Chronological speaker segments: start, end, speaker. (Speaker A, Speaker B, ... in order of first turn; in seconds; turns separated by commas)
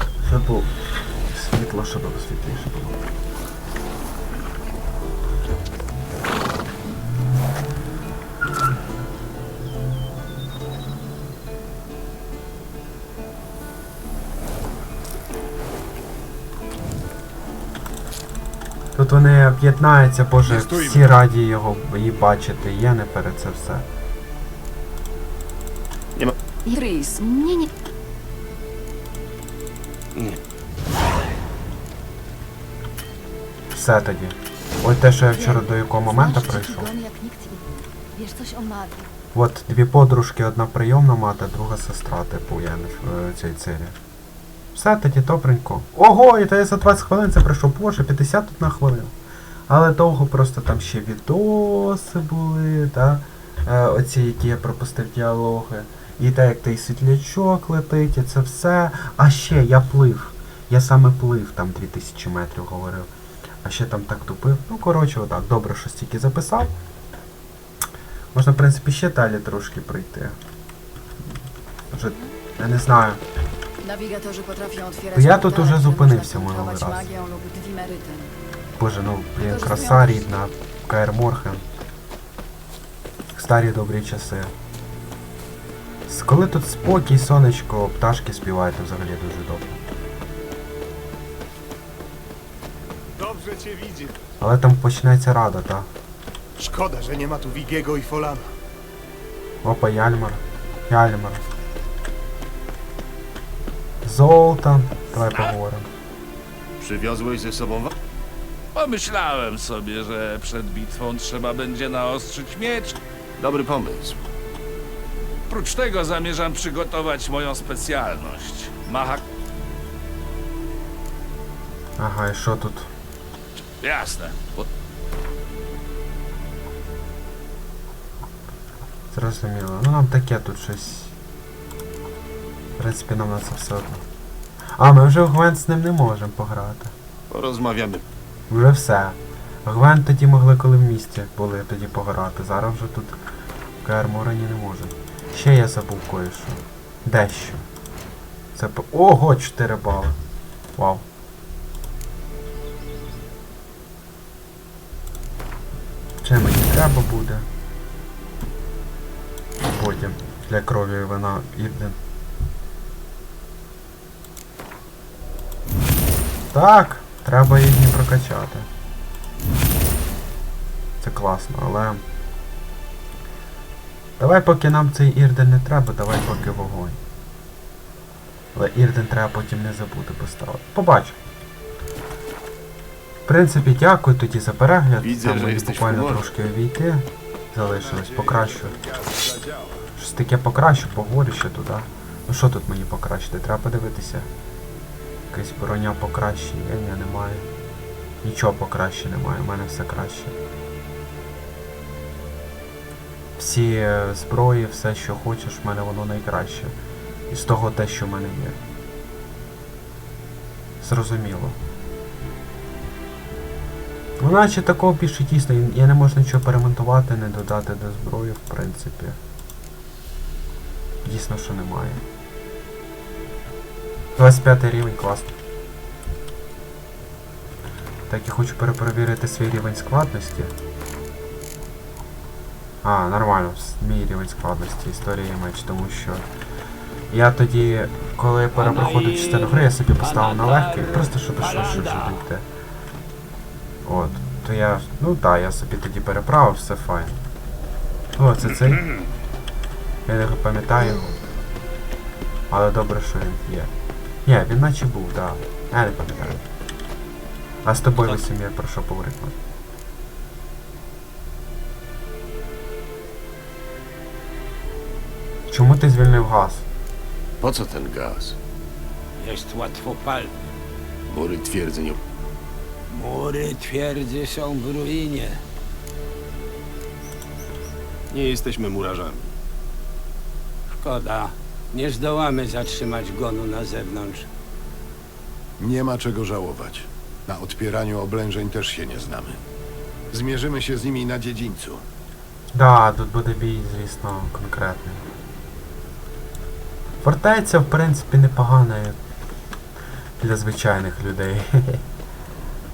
Speaker A: 0.2-3.0, Speaker A: 18.9-23.9, Speaker B: 26.7-27.7, Speaker A: 33.7-36.9, Speaker B: 35.3-39.1, Speaker A: 39.3-44.0, Speaker A: 44.8-49.1, Speaker A: 49.7-63.1, Speaker A: 63.6-66.7, Speaker A: 68.3-70.4, Speaker A: 71.9-73.2, Speaker B: 73.8-78.4, Speaker A: 75.1-77.1, Speaker A: 78.8-81.6, Speaker B: 79.4-80.1, Speaker A: 83.3-84.5, Speaker A: 86.1-89.8, Speaker C: 93.2-94.2, Speaker A: 94.4-95.9, Speaker C: 96.6-98.5, Speaker A: 99.6-101.4, Speaker A: 104.0-105.9, Speaker C: 106.8-107.9, Speaker D: 108.7-113.0, Speaker C: 113.4-114.2, Speaker D: 115.5-119.2, Speaker A: 122.0-122.9, Speaker D: 123.8-124.7, Speaker A: 129.1-131.2, Speaker A: 132.8-134.0, Speaker A: 134.8-136.9, Speaker C: 137.3-138.0, Speaker A: 138.5-143.2, Speaker A: 143.8-147.6, Speaker A: 148.6-150.2, Speaker A: 150.8-151.1, Speaker A: 156.2-157.5, Speaker A: 159.7-162.0, Speaker A: 166.5-168.7, Speaker A: 171.0-172.0, Speaker A: 174.2-177.0, Speaker A: 178.6-181.2, Speaker A: 183.3-188.8, Speaker C: 185.0-186.3, Speaker E: 187.6-189.8, Speaker A: 190.0-194.3, Speaker A: 195.3-197.5, Speaker A: 198.2-200.3, Speaker A: 203.4-206.7, Speaker A: 207.3-208.6, Speaker A: 210.8-211.6, Speaker A: 214.2-219.2, Speaker A: 221.0-222.0, Speaker A: 224.2-225.3, Speaker A: 228.1-230.5, Speaker A: 232.8-236.3, Speaker A: 237.1-242.4, Speaker F: 238.5-242.2, Speaker A: 243.8-247.2, Speaker A: 248.2-248.8, Speaker A: 250.1-251.1, Speaker A: 252.5-253.7, Speaker A: 254.2-256.4, Speaker A: 257.6-259.4, Speaker A: 265.5-266.7, Speaker C: 267.4-268.4, Speaker F: 269.2-270.4, Speaker C: 271.1-272.0, Speaker F: 272.9-275.4, Speaker C: 278.1-279.3, Speaker F: 280.7-284.3, Speaker E: 285.6-289.4, Speaker E: 290.1-291.8, Speaker A: 292.5-295.0, Speaker A: 297.0-299.0, Speaker A: 300.2-301.8